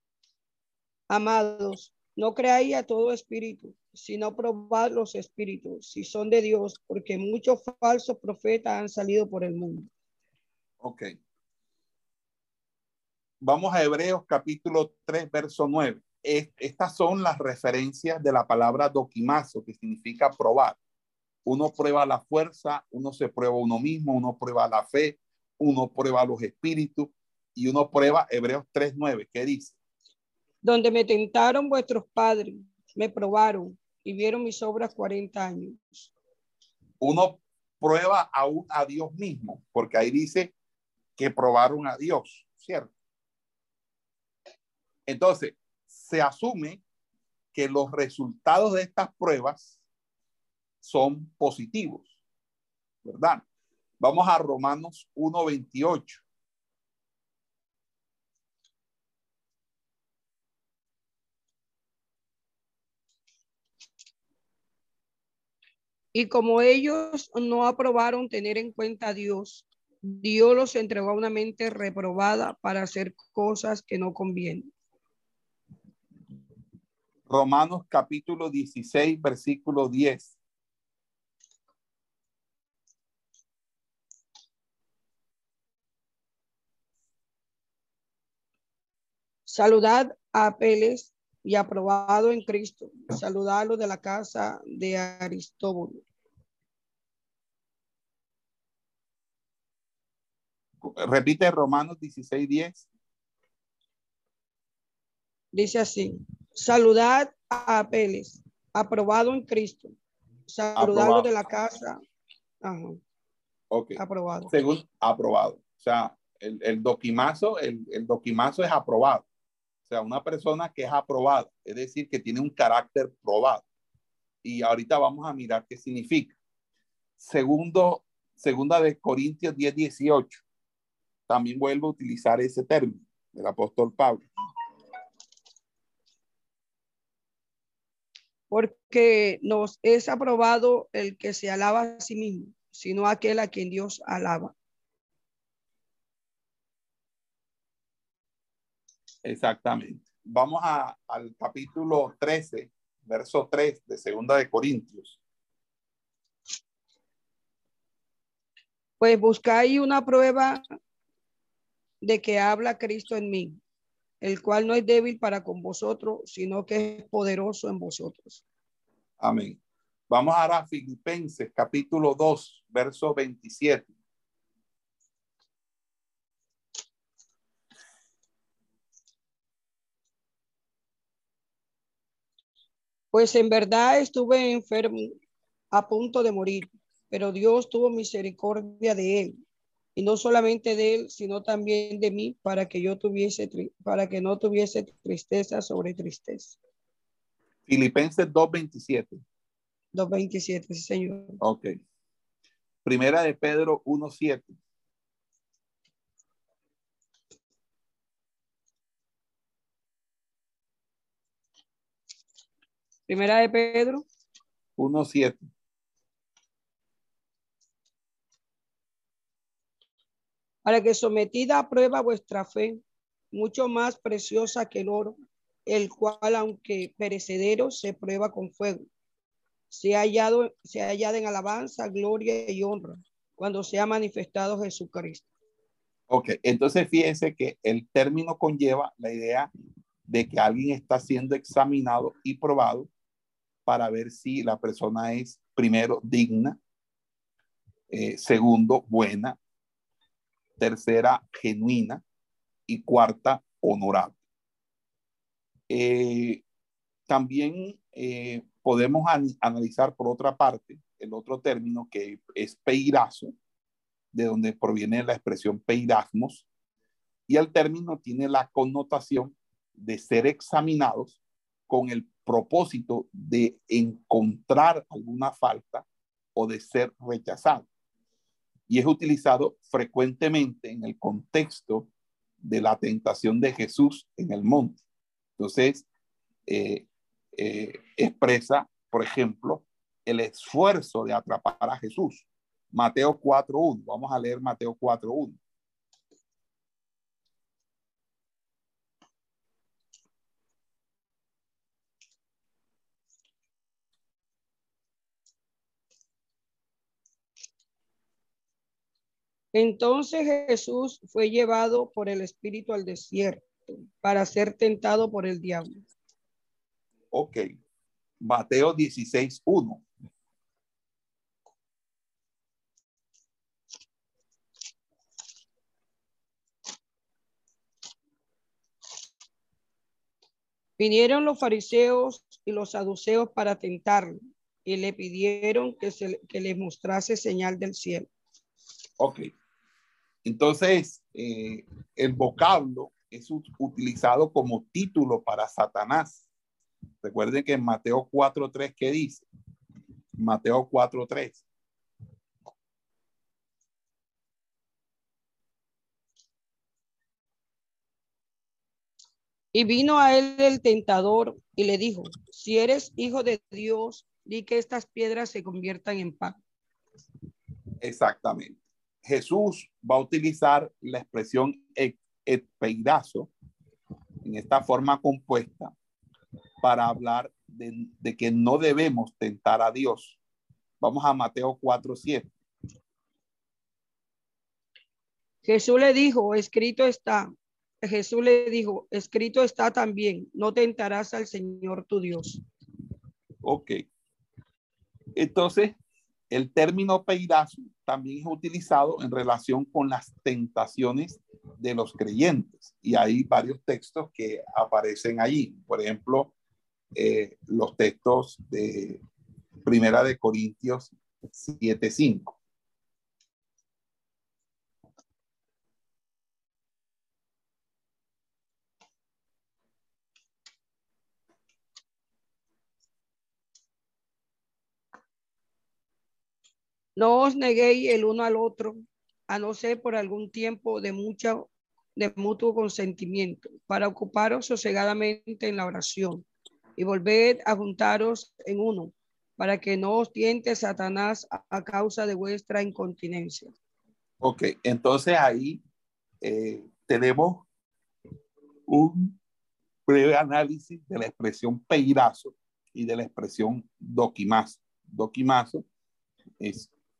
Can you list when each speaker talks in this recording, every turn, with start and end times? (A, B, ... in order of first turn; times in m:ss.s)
0:01.1-0:09.9 A
0:10.8-0:11.1 B
0:13.4-0:20.8 B
0:21.4-0:29.8 B
0:30.6-0:36.1 A
0:37.0-0:40.5 B
0:41.2-0:42.9 B
0:45.1-0:46.8 B
0:47.5-0:49.8 B
0:50.8-0:52.1 B
0:53.0-0:53.4 B
0:54.0-0:56.2 B
1:06.1-1:14.7 A
1:17.3-1:20.4 B
1:29.5-1:36.0 A
1:40.8-1:42.9 B
1:45.5-1:49.9 A
1:50.5-1:52.0 A
1:50.8-1:51.3 B
1:52.6-1:53.0 A
1:53.7-1:59.2 B
1:54.0-1:54.5 A
1:59.9-2:03.6 B
2:04.4-2:06.4 B
2:07.2-2:10.4 B
2:11.3-2:14.2 B
2:18.5-2:24.5 A
2:29.2-2:35.2 B
2:39.0-2:40.6 A
2:42.0-2:43.6 A
2:44.2-2:48.4 A
2:49.2-2:53.9 B
3:03.1-3:05.2 A
3:05.7-3:09.4 A
3:10.0-3:16.6 A
3:17.7-3:19.2 B
3:19.9-3:21.4 A
3:21.4-3:21.7 B
3:22.8-3:24.5 B
3:33.1-3:34.0 A
3:34.8-3:35.5 B
3:40.6-3:48.9 A
3:49.7-3:55.2 A
3:56.1-3:59.5 B
4:00.1-4:02.9 B
4:03.6-4:06.6 B
4:07.9-4:09.4 B
4:10.6-4:12.0 B
4:12.7-4:14.2 B
4:15.7-4:16.4 B
4:17.1-4:23.3 B
4:24.1-4:26.5 B
4:27.3-4:37.6 B
4:38.7-4:41.9 B
4:42.4-4:44.8 B
4:45.4-4:45.9 B
4:46.5-4:55.4 B
5:09.5-5:15.8 A
5:17.1-5:17.4 B
5:18.2-5:19.8 B
5:30.8-5:38.1 A
5:39.0-5:39.3 B
5:40.2-5:46.3 B
5:47.0-5:49.3 B
5:50.2-5:51.4 B
5:59.5-6:06.4 A
6:07.8-6:13.3 B
6:14.2-6:15.7 B
6:16.6-6:20.2 B
6:20.8-6:22.3 B
6:25.4-6:27.3 A
6:27.8-6:32.4 A
6:33.4-6:33.8 B
6:35.2-6:35.8 B
6:36.3-6:46.3 B
6:46.9-6:49.0 B
6:49.6-6:52.4 B
7:07.0-7:16.2 A
7:16.8-7:23.5 A
7:24.2-7:25.6 B
7:26.2-7:27.4 B
7:28.7-7:29.2 B
7:29.9-7:35.6 B
7:36.4-7:36.7 B